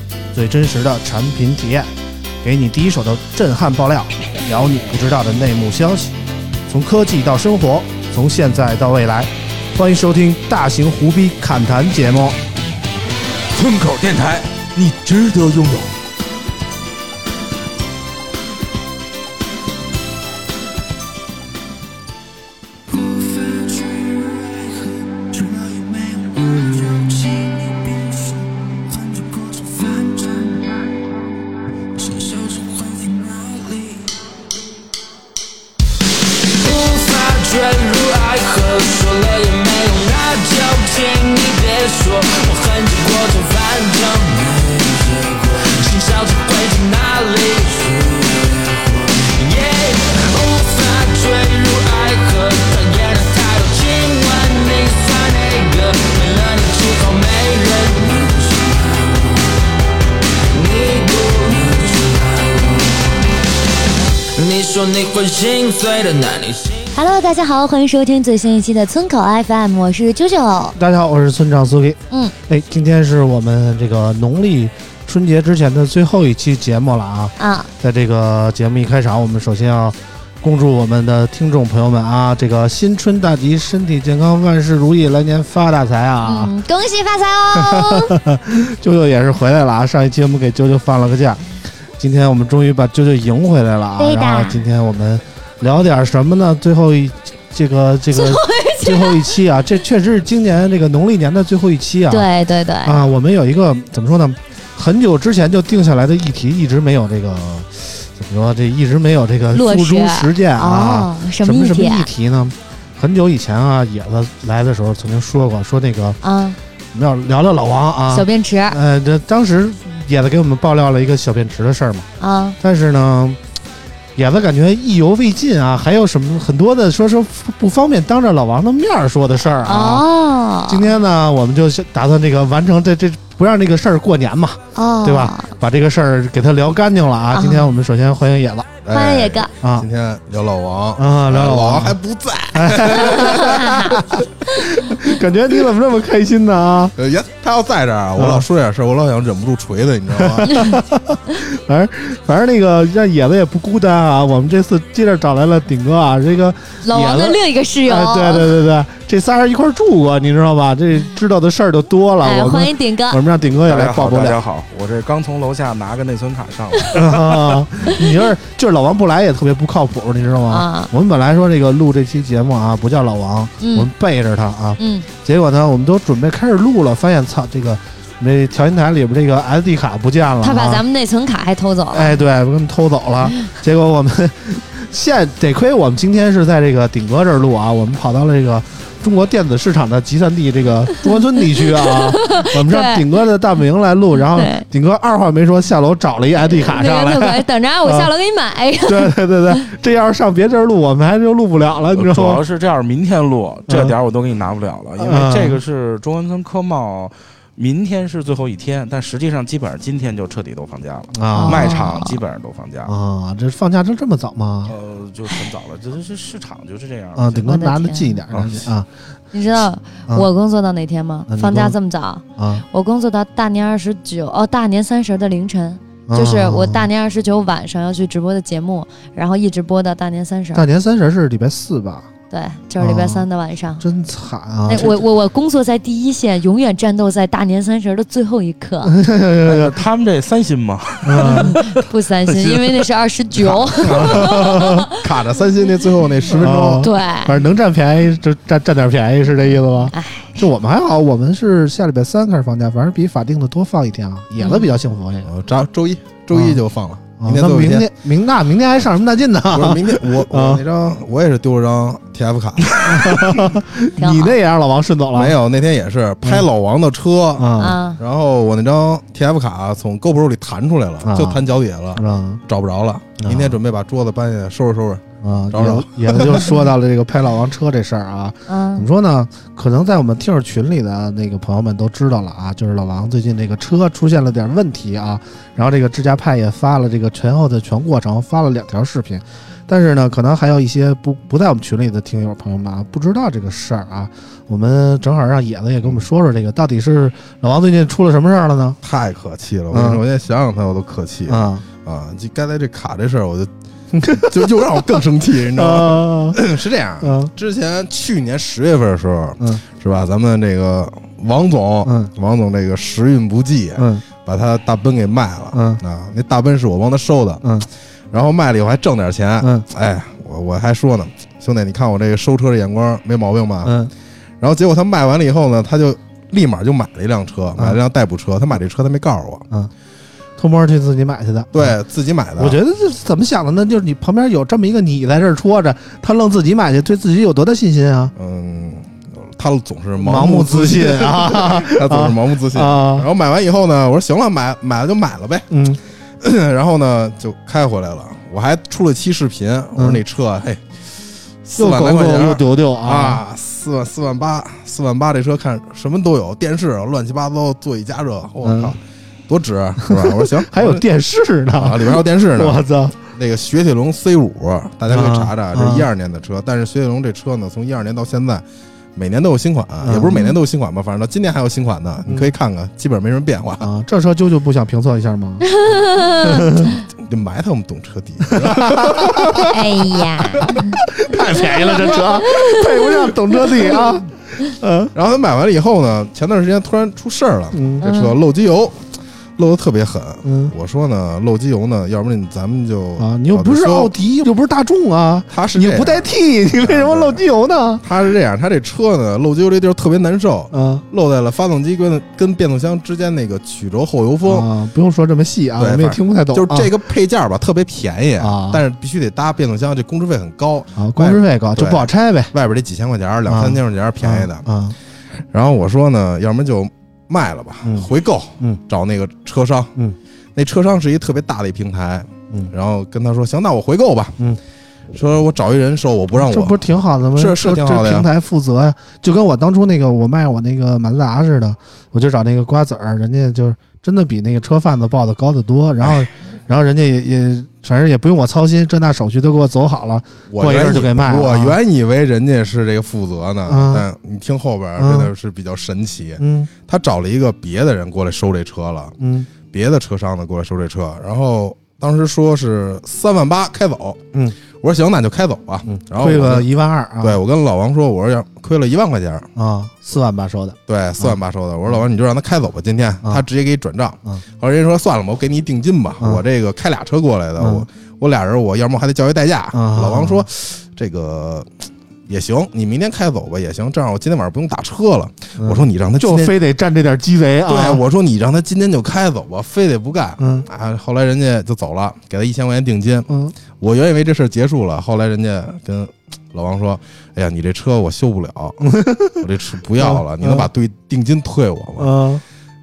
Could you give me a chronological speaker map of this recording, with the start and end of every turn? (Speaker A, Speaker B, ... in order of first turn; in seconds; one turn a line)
Speaker A: 0.3-1.9
Speaker A: 2.4-6.2
Speaker A: 6.7-12.4
Speaker B: 13.5-15.9
Speaker C: 22.9-30.7
Speaker C: 32.0-34.1
Speaker C: 36.4-59.6
Speaker C: 60.5-63.3
Speaker C: 64.3-66.9
Speaker D: 66.9-70.8
Speaker A: 70.8-86.5
Speaker D: 77.4-77.7
Speaker D: 86.2-88.2
Speaker A: 87.6-91.4
Speaker A: 92.0-102.3
Speaker D: 94.0-94.6
Speaker D: 98.1-99.3
Speaker D: 102.1-103.0
Speaker A: 102.8-116.2
Speaker D: 109.5-112.1
Speaker D: 116.2-116.6
Speaker A: 116.9-122.1
Speaker D: 118.1-118.8
Speaker D: 122.2-122.6
Speaker A: 122.6-123.4
Speaker A: 124.2-130.1
Speaker D: 129.7-130.9
Speaker A: 130.7-138.8
Speaker D: 134.8-135.5
Speaker D: 137.3-137.7
Speaker E: 138.8-143.8
Speaker D: 138.9-139.5
Speaker A: 139.6-139.9
Speaker A: 141.0-142.0
Speaker A: 142.5-147.0
Speaker D: 143.1-143.9
Speaker E: 147.0-150.5
Speaker A: 148.2-148.4
Speaker A: 150.2-164.4
Speaker D: 150.5-150.8
Speaker D: 156.8-158.6
Speaker D: 162.2-163.2
Speaker B: 163.7-167.6
Speaker A: 166.9-180.8
Speaker D: 170.5-170.9
Speaker D: 173.6-173.9
Speaker D: 174.8-175.1
Speaker D: 180.4-182.2
Speaker A: 181.9-198.1
Speaker D: 191.7-193.0
Speaker D: 194.3-194.7
Speaker D: 196.5-199.2
Speaker A: 198.9-202.4
Speaker B: 201.9-212.9
Speaker A: 203.7-203.9
Speaker A: 205.0-205.6
Speaker A: 211.1-211.8
Speaker D: 211.4-212.2
Speaker A: 212.9-214.7
Speaker B: 214.7-217.5
Speaker A: 217.2-218.9
Speaker D: 217.4-218.2
Speaker B: 218.3-218.7
Speaker D: 219.3-230.7
Speaker A: 221.3-221.8
Speaker A: 222.4-222.7
Speaker A: 226.1-226.9
Speaker A: 230.5-232.1
Speaker D: 232.3-233.8
Speaker A: 232.8-233.3
Speaker A: 233.8-234.9
Speaker D: 234.7-238.9
Speaker A: 238.8-239.8
Speaker B: 239.5-242.9
Speaker A: 241.0-241.6
Speaker D: 241.2-244.9
Speaker E: 243.3-246.9
Speaker A: 243.9-244.9
Speaker A: 246.3-255.3
Speaker D: 246.8-247.4
Speaker D: 249.9-250.4
Speaker D: 254.4-254.8
Speaker E: 255.2-257.9
Speaker A: 256.3-256.6
Speaker A: 257.2-260.6
Speaker E: 259.5-263.6
Speaker A: 262.8-265.4
Speaker D: 264.0-264.4
Speaker E: 265.1-276.6
Speaker A: 267.4-267.8
Speaker D: 267.6-268.0
Speaker A: 271.0-271.4
Speaker A: 271.9-272.4
Speaker A: 273.2-273.6
Speaker A: 275.2-298.8
Speaker D: 278.5-278.9
Speaker E: 298.8-303.5
Speaker A: 299.7-300.0
Speaker A: 301.3-301.6
Speaker A: 303.9-304.5
Speaker E: 304.2-317.4
Speaker A: 305.6-306.4
Speaker A: 307.0-307.3
Speaker A: 311.9-312.1
Speaker A: 313.8-314.0
Speaker A: 315.5-315.8
Speaker A: 317.4-317.7
Speaker E: 318.1-323.8
Speaker A: 319.4-319.7
Speaker A: 323.6-323.9
Speaker E: 324.4-329.4
Speaker A: 330.4-331.7
Speaker E: 331.5-332.6
Speaker A: 332.4-338.1
Speaker E: 338.2-345.6
Speaker A: 340.0-343.1
Speaker A: 345.5-345.8
Speaker E: 346.2-350.6
Speaker A: 349.8-350.0
Speaker E: 351.4-360.8
Speaker A: 351.6-353.2
Speaker A: 358.4-358.8
Speaker A: 359.8-363.0
Speaker E: 361.6-368.4
Speaker A: 364.9-365.9
Speaker E: 368.9-373.7
Speaker A: 369.8-370.3
Speaker A: 372.1-372.3
Speaker A: 373.6-375.5
Speaker D: 375.5-376.8
Speaker A: 376.2-376.7
Speaker E: 377.0-380.6
Speaker A: 378.2-379.4
Speaker D: 379.5-380.8
Speaker A: 380.4-384.9
Speaker E: 381.3-382.0
Speaker D: 382.0-383.0
Speaker E: 384.9-393.9
Speaker A: 387.5-387.9
Speaker D: 387.8-388.2
Speaker A: 390.2-390.5
Speaker A: 393.0-397.9
Speaker E: 395.3-396.1
Speaker E: 396.6-397.2
Speaker E: 397.8-404.5
Speaker A: 400.5-400.8
Speaker A: 404.3-406.7
Speaker E: 405.6-414.5
Speaker A: 408.2-408.6
Speaker A: 410.8-412.3
Speaker A: 413.3-414.8
Speaker E: 415.3-419.7
Speaker A: 417.6-417.9
Speaker E: 420.4-424.2
Speaker E: 424.9-428.1
Speaker A: 426.2-441.6
Speaker E: 435.8-436.1
Speaker E: 440.3-456.5
Speaker A: 443.5-443.9
Speaker A: 444.8-445.1
Speaker A: 446.2-446.5
Speaker A: 449.0-449.3
Speaker A: 455.6-457.2
Speaker E: 457.0-459.3
Speaker A: 459.4-461.2
Speaker E: 460.7-471.5
Speaker A: 467.4-467.7
Speaker A: 469.5-470.2
Speaker E: 472.1-476.4
Speaker A: 475.4-477.8
Speaker E: 477.5-488.6
Speaker A: 480.2-480.5
Speaker A: 483.1-483.4
Speaker A: 488.6-489.2
Speaker E: 489.2-491.9
Speaker A: 489.8-490.5
Speaker A: 491.8-492.2